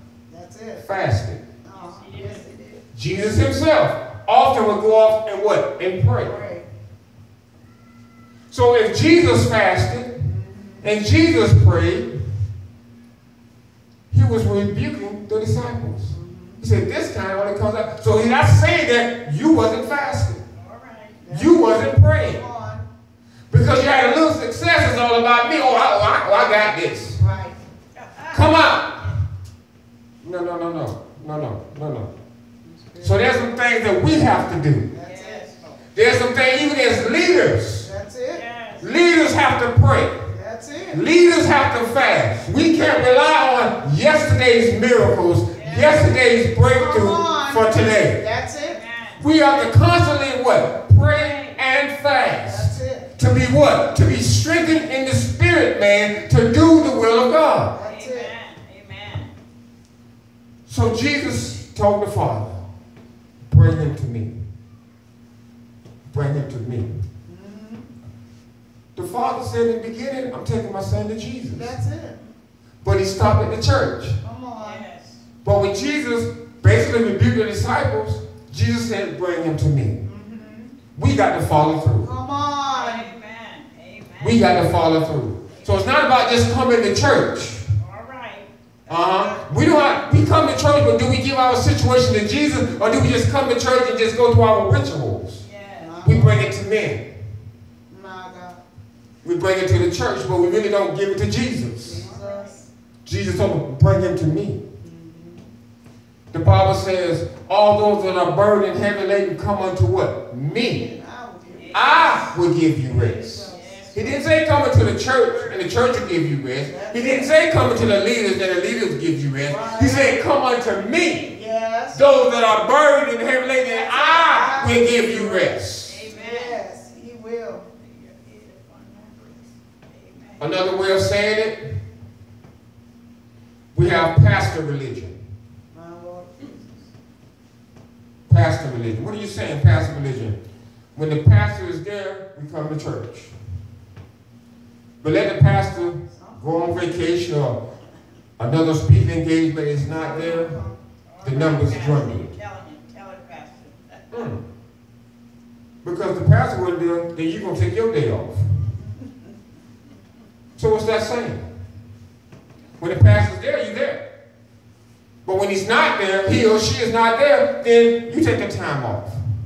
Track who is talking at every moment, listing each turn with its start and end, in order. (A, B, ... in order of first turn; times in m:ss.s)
0:00.3-0:00.8 A
0:00.8-0:01.4 B
0:01.6-0:02.8 A
0:01.7-0:02.4 C
0:02.9-0:06.4 B
0:06.2-0:06.7 A
0:08.5-0:10.1 B
0:10.2-0:10.9 A
0:10.8-0:12.1 B
0:14.1-0:20.4 B
0:16.1-0:16.6 A
0:20.6-0:21.2 C
0:21.2-0:22.9 A
0:21.3-0:22.4 B
0:23.5-0:27.2 B
0:27.2-0:27.6 A
0:28.0-0:28.4 C
0:28.3-0:29.0 B
0:30.2-0:32.1 B
0:32.6-0:33.2 A
0:33.0-0:34.9 B
0:34.9-0:35.5 A
0:35.0-0:35.8 C
0:35.9-0:37.9 B
0:37.8-0:38.4 A
0:38.3-0:38.8 C
0:38.8-0:40.1 B
0:40.3-0:41.0 A
0:40.9-0:48.2 B
0:45.5-0:46.0 C
0:46.7-0:48.8 A
0:48.6-0:49.3 C
0:49.2-0:57.7 B
0:51.1-0:51.6 C
0:52.4-0:53.1 A
0:57.7-0:58.3 A
0:57.8-0:59.3 C
1:00.7-1:02.5 B
1:03.5-1:04.3 B
1:06.1-1:06.9 B
1:07.3-1:07.9 A
1:09.0-1:11.7 B
1:11.5-1:12.2 A
1:12.8-1:14.2 B
1:14.2-1:14.8 A
1:14.6-1:15.2 C
1:15.4-1:20.0 B
1:20.0-1:20.8 A
1:21.0-1:22.1 B
1:22.0-1:23.1 A
1:22.7-1:24.5 C
1:24.2-1:27.6 B
1:25.5-1:25.9 C
1:27.8-1:29.5 C
1:28.9-1:35.4 B
1:35.4-1:36.0 C
1:35.8-1:36.5 A
1:36.0-1:37.0 B
1:37.9-1:38.6 A
1:39.2-1:42.0 B
1:41.8-1:42.7 A
1:42.0-1:42.5 C
1:43.0-1:44.6 B
1:44.8-1:45.4 A
1:46.3-1:50.9 B
1:50.7-1:51.9 A
1:51.5-1:52.4 C
1:51.7-2:01.3 B
1:52.8-1:54.2 A
1:53.5-1:54.2 C
1:55.2-1:55.8 C
1:56.6-1:57.3 A
1:59.4-2:00.2 A
2:01.3-2:02.0 A
2:01.9-2:06.0 B
2:03.7-2:04.6 C
2:03.8-2:05.5 A
2:05.8-2:06.6 C
2:06.1-2:07.7 A
2:07.8-2:10.6 C
2:10.4-2:11.7 B
2:13.7-2:15.2 B
2:15.7-2:16.9 A
2:18.3-2:20.4 B
2:20.9-2:23.3 B
2:25.0-2:27.6 B
2:26.1-2:26.9 A
2:28.4-2:30.6 B
2:29.8-2:30.8 A
2:31.1-2:34.1 C
2:31.2-2:32.3 B
2:34.1-2:34.4 B
2:35.8-2:38.4 B
2:40.6-2:41.4 B
2:42.8-2:44.0 B
2:45.2-2:49.1 B